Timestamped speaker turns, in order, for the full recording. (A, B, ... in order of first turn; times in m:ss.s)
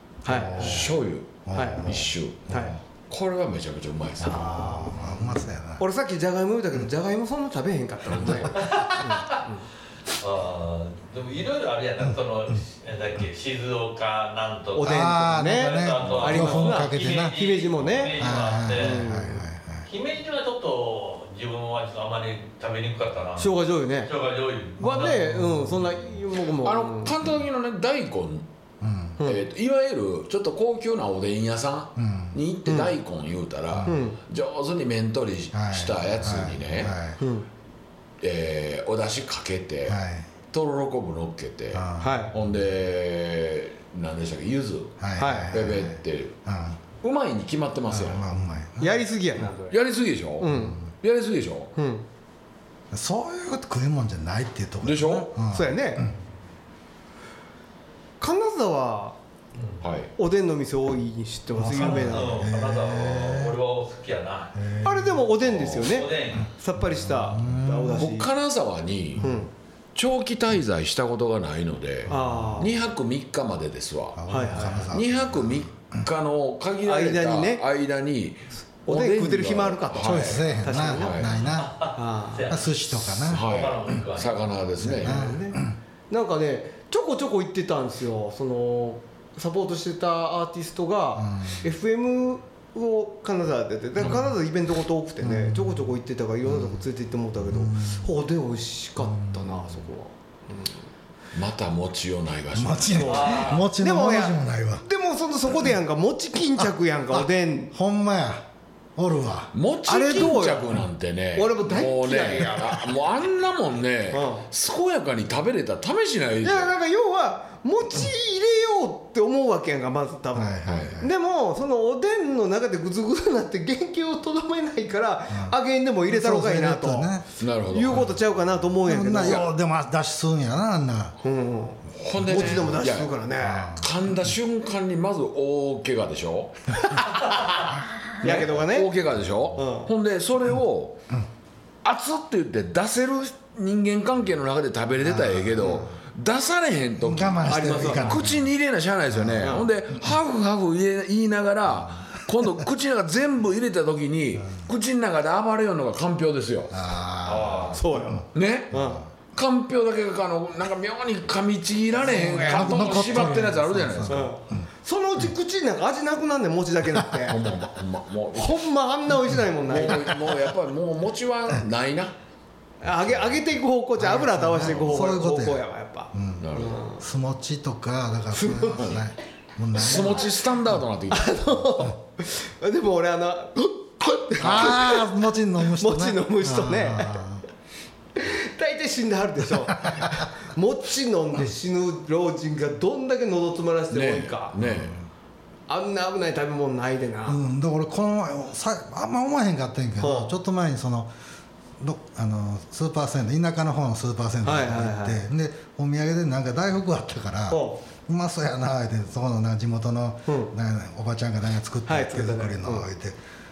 0:00.2-0:00.9 A
0:00.2-0:02.8 B
0:00.5-0:04.9 C
0:01.5-0:02.8 A
0:04.2-0:05.8 B
0:04.2-0:05.1 A
0:05.8-0:09.6 A
0:08.5-0:09.4 D
0:10.1-0:19.1 D
0:14.8-0:19.4 A
0:14.8-0:17.4 B
0:18.2-0:19.9 B
0:19.9-0:25.4 D
0:23.4-0:24.1 A
0:24.8-0:27.2 A
0:25.4-0:25.8 B
0:26.6-0:28.4 C
0:28.8-0:29.2 B
0:29.2-0:36.9 C
0:32.0-0:32.4 B
0:32.6-0:32.9 A
0:33.8-0:34.2 A
0:35.5-0:37.2 B
0:37.2-0:37.5 A
0:38.2-0:46.4 C
0:39.8-0:40.3 B
0:41.7-0:42.2 B
0:42.0-0:42.3 A
0:45.0-0:46.8 B
0:45.2-0:45.5 A
0:47.0-0:48.3 C
0:47.9-0:49.0 B
0:48.8-0:49.8 A
0:49.7-0:51.7 C
0:50.4-0:50.8 A
0:51.8-0:52.0 A
0:52.9-0:56.1 B
0:54.8-0:55.3 C
0:55.5-0:56.0 A
0:58.2-0:59.2 A
0:59.8-1:00.1 C
1:00.2-1:02.5 A
1:01.6-1:03.6 B
1:01.7-1:04.5 D
1:04.5-1:05.2 B
1:04.8-1:08.3 A
1:05.4-1:06.0 C
1:05.8-1:06.5 D
1:06.8-1:08.1 B
1:08.0-1:09.2 C
1:09.2-1:09.5 A
1:09.9-1:21.5 C
1:12.1-1:12.7 A
1:14.2-1:15.7 B
1:14.3-1:14.9 A
1:16.8-1:17.6 A
1:18.8-1:21.3 A
1:20.0-1:21.9 B
1:21.5-1:24.3 D
1:21.9-1:22.5 A
1:22.4-1:23.6 B
1:23.2-1:25.3 C
1:24.8-1:25.8 B
1:25.0-1:40.8 A
1:31.2-1:31.6 B
1:35.2-1:35.8 B
1:36.5-1:36.8 B
1:37.5-1:38.0 B
1:39.0-1:39.7 B
1:41.3-1:43.1 C
1:42.5-1:44.8 B
1:43.0-1:47.7 A
1:43.0-1:43.7 D
1:47.7-1:48.4 B
1:49.0-1:49.5 B
1:49.5-1:56.7 C
1:49.8-1:50.8 A
1:51.3-1:52.9 A
1:54.1-1:54.4 A
1:56.4-2:09.5 A
2:00.3-2:01.1 B
2:00.6-2:01.0 C
2:05.3-2:05.6 B
2:06.1-2:07.3 B
2:07.4-2:08.1 C
2:08.8-2:11.1 B
2:11.2-2:13.8 A
2:11.9-2:13.1 C
2:12.3-2:12.7 B
2:13.4-2:13.8 B
2:13.7-2:16.7 C
2:16.8-2:18.9 A
2:18.2-2:21.0 C
2:19.6-2:19.9 A
2:21.8-2:36.8 C
2:25.0-2:25.9 B
2:27.0-2:28.5 B
2:27.5-2:28.2 A
2:29.1-2:29.6 B
2:29.4-2:29.7 A
2:36.7-2:39.0 B
2:37.2-2:37.8 D
2:37.7-2:39.0 A
2:38.3-2:44.3 C
2:42.0-2:44.6 B
2:42.0-2:43.3 A
2:44.0-2:47.4 A
2:47.2-2:48.6 C
2:48.3-2:50.2 A
2:49.7-2:52.1 C
2:52.8-2:57.0 A
2:54.0-2:55.6 B
2:54.6-2:55.1 C
2:56.1-3:00.4 B
2:56.4-2:56.8 C
2:58.3-2:59.0 A
2:59.7-3:01.4 C
3:01.1-3:07.3 A
3:04.4-3:07.4 B
3:04.4-3:04.8 C
3:08.1-3:14.5 A
3:13.9-3:15.0 C
3:14.6-3:15.0 B
3:15.7-3:17.4 A
3:17.2-3:21.1 B
3:20.0-3:20.3 A
3:21.8-3:33.2 B
3:24.4-3:25.3 A
3:27.5-3:27.8 A
3:30.3-3:30.5 A
3:31.8-3:32.9 A